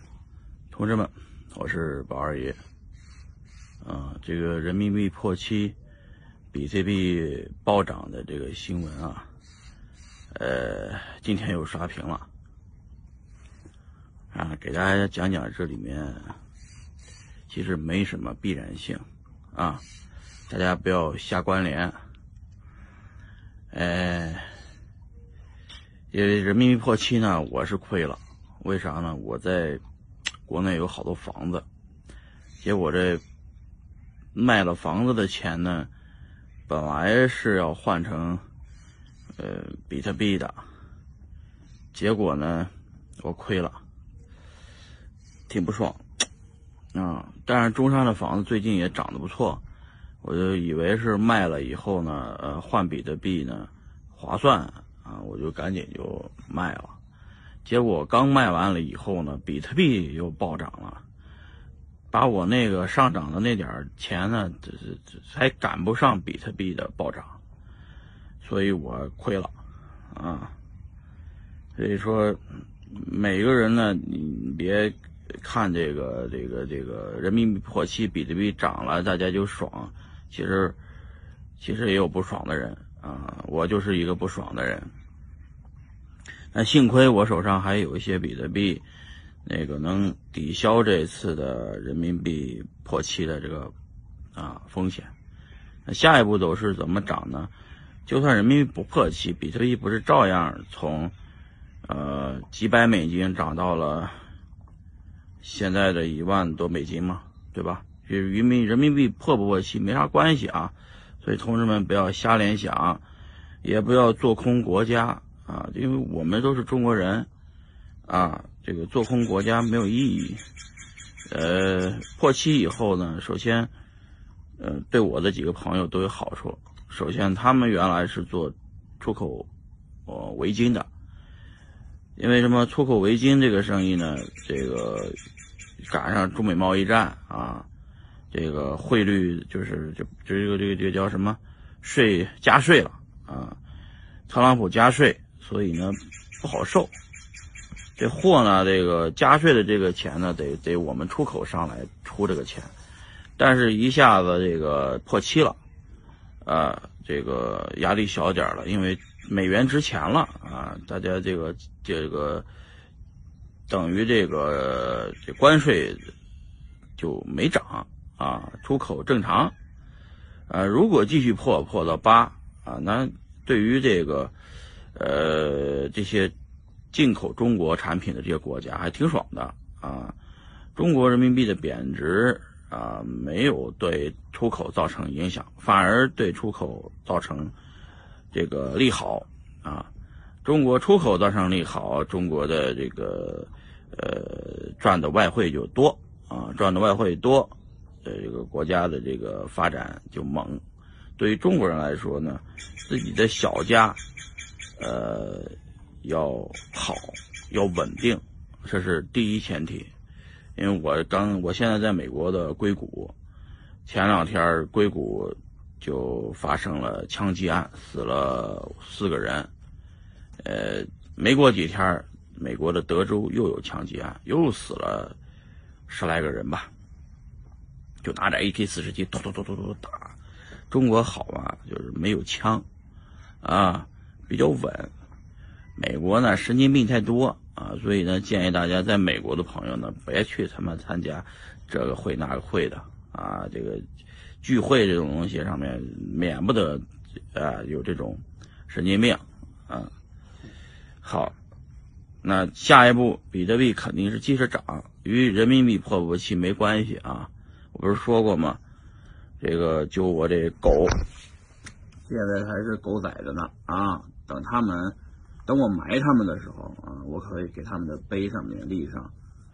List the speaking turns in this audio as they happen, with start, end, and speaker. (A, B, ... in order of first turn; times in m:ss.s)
0:00.7-0:02.6 A
0:03.8-0:05.8 A
0:06.5-0:09.3 A
0:10.3-0:12.3 A
0:14.3-0:16.4 A
0:17.5-0:19.8 A
0:20.5-0:22.0 A
0:23.7-0:24.5 A
0:26.1-0:29.8 A
0:30.5-0:31.6 A
0:32.6-0:33.2 A
0:34.3-0:35.9 A
0:36.7-0:38.4 A
0:39.4-0:40.6 A
0:41.9-0:43.8 A
0:45.5-0:46.0 A
0:46.9-0:49.6 A
0:50.2-0:57.0 A
0:57.6-1:01.0 A
1:02.1-1:07.4 A
1:08.4-1:09.5 A
1:10.1-1:10.5 A
1:11.8-1:20.8 A
1:21.6-1:24.9 A
1:26.5-1:28.8 A
1:29.4-1:33.7 A
1:34.4-1:35.1 A
1:35.9-1:37.5 A
1:38.1-1:41.1 A
1:41.8-1:44.2 A
1:45.4-1:53.0 A
1:53.6-1:57.3 A
1:58.1-2:00.4 A
2:01.3-2:03.7 A
2:04.6-2:09.5 A
2:10.1-2:10.9 A
2:12.2-2:15.2 A
2:15.9-2:17.7 A
2:18.3-2:23.6 A
2:24.3-2:26.9 A
2:28.0-2:32.7 A
2:33.4-2:35.6 A
2:36.4-2:42.5 A
2:43.7-2:46.1 A
2:47.0-2:49.5 A
2:50.5-2:54.3 A
2:55.0-2:56.3 A
2:56.9-3:00.2 A
3:00.8-3:07.5 A
3:08.3-3:09.9 A
3:10.4-3:17.5 A
3:18.0-3:20.6 A
3:21.2-3:24.0 A
3:24.8-3:29.9 A
3:30.6-3:33.1 A
3:33.9-3:39.5 A
3:40.4-3:45.2 A
3:45.9-3:46.7 A
3:48.0-3:50.2 A
3:50.7-3:52.6 A
3:53.4-3:54.9 A
3:55.8-4:03.8 A
4:04.4-4:09.9 A
4:11.0-4:11.4 A
4:12.2-4:18.6 A
4:19.4-4:21.0 A
4:22.1-4:25.0 A
4:25.5-4:29.1 A